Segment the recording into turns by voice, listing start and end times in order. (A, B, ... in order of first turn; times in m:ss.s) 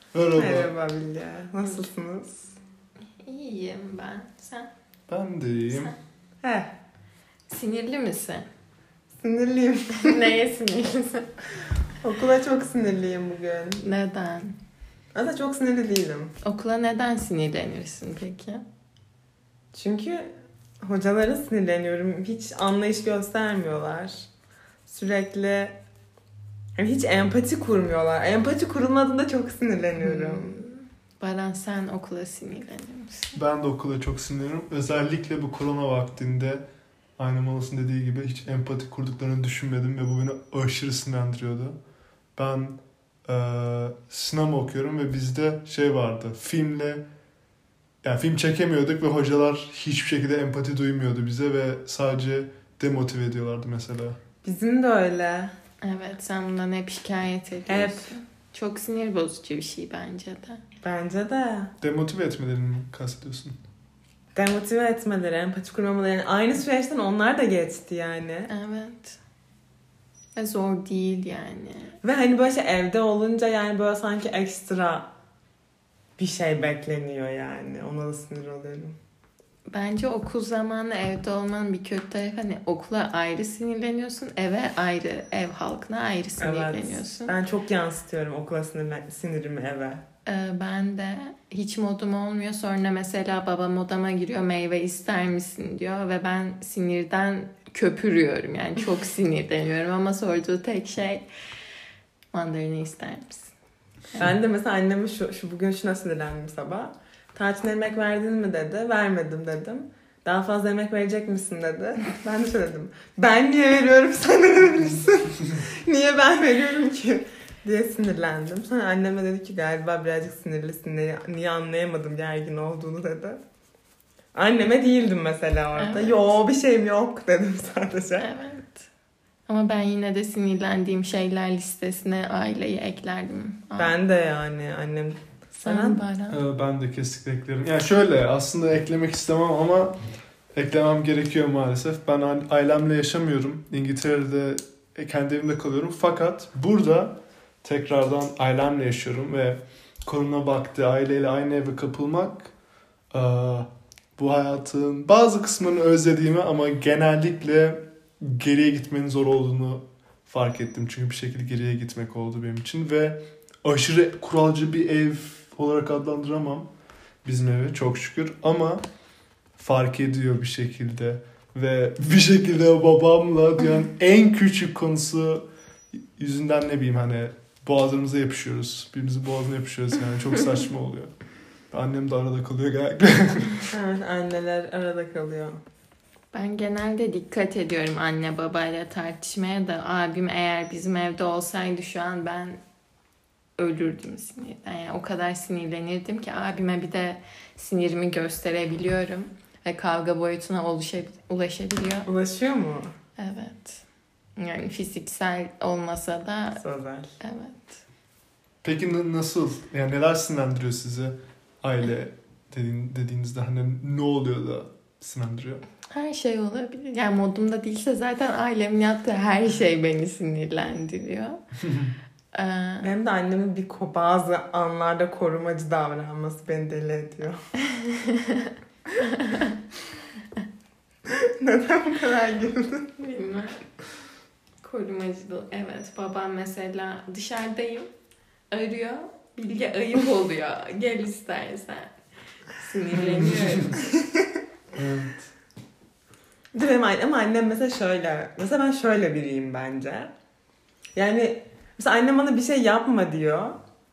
0:00.1-0:00.7 A
0:00.4-0:02.6 B
0:03.2-0:04.7 C
0:05.1-0:05.9 A
0:06.4-0:06.7 B
0:07.5-0:08.5 C
0:09.2-0:10.3 B
0:09.9-0:11.3 C
0:12.0-0:13.8 B
0:13.8-0:14.5 C
0:15.1-0:16.4 B
0:16.4-0:18.6 C
0:19.7-0:24.3 B
0:24.9-0:25.8 B
0:26.8-0:30.6 B
0:30.0-0:33.4 C
0:33.4-0:36.6 A
0:37.2-0:41.8 A
0:42.4-0:47.0 A
0:48.0-0:54.2 A
0:54.4-0:55.5 B
0:55.8-1:00.6 C
0:57.7-0:58.2 B
1:00.8-1:01.7 B
1:01.8-1:03.6 A
1:04.4-1:08.5 B
1:08.5-1:09.2 C
1:10.4-1:12.0 C
1:12.0-1:15.1 B
1:16.2-1:19.0 B
1:19.7-1:27.4 C
1:26.4-1:30.0 B
1:30.3-1:41.3 C
1:42.3-1:43.5 C
1:44.2-2:03.4 B
2:04.3-2:08.3 B
2:05.8-2:06.3 C
2:08.2-2:08.9 C
2:09.5-2:14.0 C
2:13.8-2:16.0 B
2:15.6-2:16.4 C
2:16.3-2:20.0 A
2:20.5-2:32.5 A
2:33.1-2:46.7 A
2:47.2-2:48.8 A
2:49.6-3:01.2 A
3:01.7-3:03.7 A
3:03.7-3:05.6 B
3:06.3-3:12.6 C
3:13.6-3:22.1 C
3:22.1-3:22.9 B
3:23.2-3:23.8 C
3:24.4-3:26.6 C
3:26.6-3:27.2 B
3:27.2-3:27.8 C
3:28.6-3:35.6 A
3:35.9-3:41.4 C
3:41.6-3:41.9 A
3:42.3-3:42.9 C
3:42.8-3:47.4 B
3:47.6-3:49.6 C
3:51.1-3:52.9 B
3:53.0-3:53.7 C
3:54.6-3:57.9 C
3:58.5-4:03.8 C
4:02.9-4:03.7 A
4:04.0-4:04.2 B
4:04.8-4:05.3 A
4:06.5-4:10.1 B
4:11.0-4:13.6 B